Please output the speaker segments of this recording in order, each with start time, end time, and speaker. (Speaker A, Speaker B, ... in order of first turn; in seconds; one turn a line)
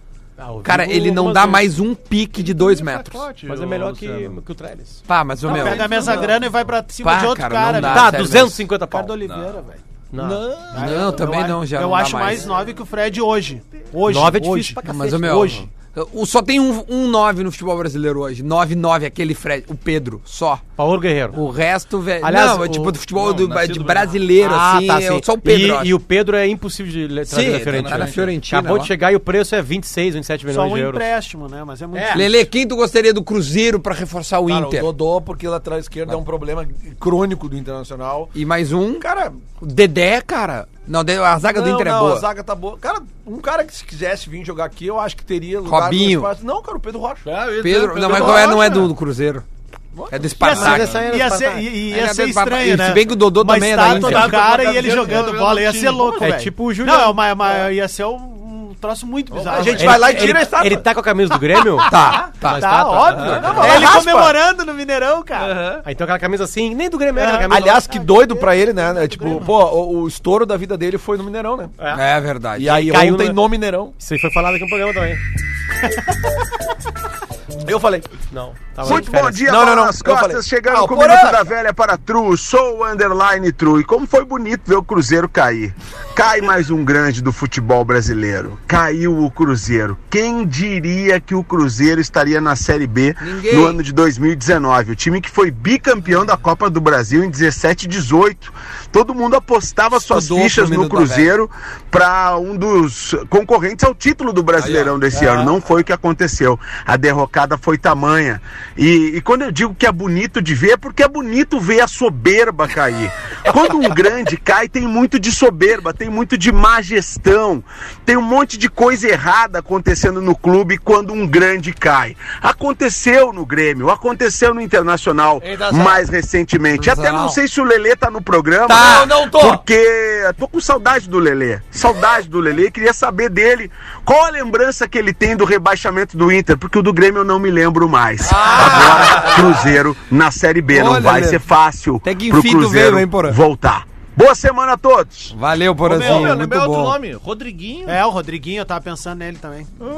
Speaker A: 0.4-1.7
Speaker B: 0.6-3.2
Speaker C: 2.4-4.4
Speaker A: 3.5-6.2
Speaker B: 5.1-6.3
Speaker D: 5.4-9.8
Speaker C: 5.8-6.3
Speaker B: 7.0-8.6
Speaker A: 7.8-9.1
Speaker C: 9.2-9.6
Speaker A: 10.1-10.4
Speaker E: 10.2-11.0
Speaker B: 10.7-12.5
Speaker D: 10.7-14.8
Speaker A: 14.1-15.7
Speaker B: 14.8-20.6
Speaker A: 20.8-21.4
Speaker B: 21.3-25.9
Speaker A: 22.2-23.0
Speaker C: 23.1-24.2
Speaker A: 24.4-31.0
Speaker B: 27.3-28.9
Speaker C: 27.6-28.4
Speaker D: 30.5-32.5
Speaker A: 31.9-32.2
Speaker B: 32.1-34.9
Speaker E: 34.5-38.3
Speaker B: 38.3-39.1
Speaker E: 39.0-39.4
Speaker B: 39.6-42.2
Speaker E: 41.5-47.2
Speaker B: 45.6-46.3
Speaker C: 47.2-48.9
Speaker B: 47.6-49.4
Speaker D: 48.1-48.9
Speaker E: 49.9-50.8
Speaker B: 50.1-51.0
Speaker A: 50.4-51.7
Speaker D: 50.4-60.3
Speaker B: 51.9-54.6
Speaker C: 53.8-56.3
Speaker A: 56.2-57.3
Speaker C: 59.3-60.0
Speaker E: 59.5-60.9
Speaker A: 59.8-63.8
Speaker D: 61.5-65.6
Speaker B: 61.9-64.0
Speaker C: 63.1-63.7
Speaker E: 63.5-64.3
Speaker C: 65.3-65.8
Speaker A: 65.8-67.8
Speaker D: 67.2-69.5
Speaker E: 67.5-71.8
Speaker A: 71.8-72.0
Speaker B: 71.9-72.9
Speaker E: 72.5-73.9
Speaker A: 72.6-75.2
Speaker E: 77.6-78.1
Speaker A: 78.3-79.5
Speaker F: 78.8-145.3
Speaker E: 78.9-81.5
Speaker B: 93.2-93.8
Speaker B: 99.9-101.3
Speaker E: 105.2-105.5
Speaker B: 125.4-126.0
Speaker B: 126.7-127.4
Speaker B: 128.7-129.6
Speaker B: 138.3-139.7
Speaker C: 138.9-139.3
Speaker B: 140.7-141.4
Speaker B: 142.0-143.4
Speaker B: 145.3-146.9
Speaker D: 145.8-146.3
Speaker C: 145.9-148.0
Speaker D: 147.8-149.7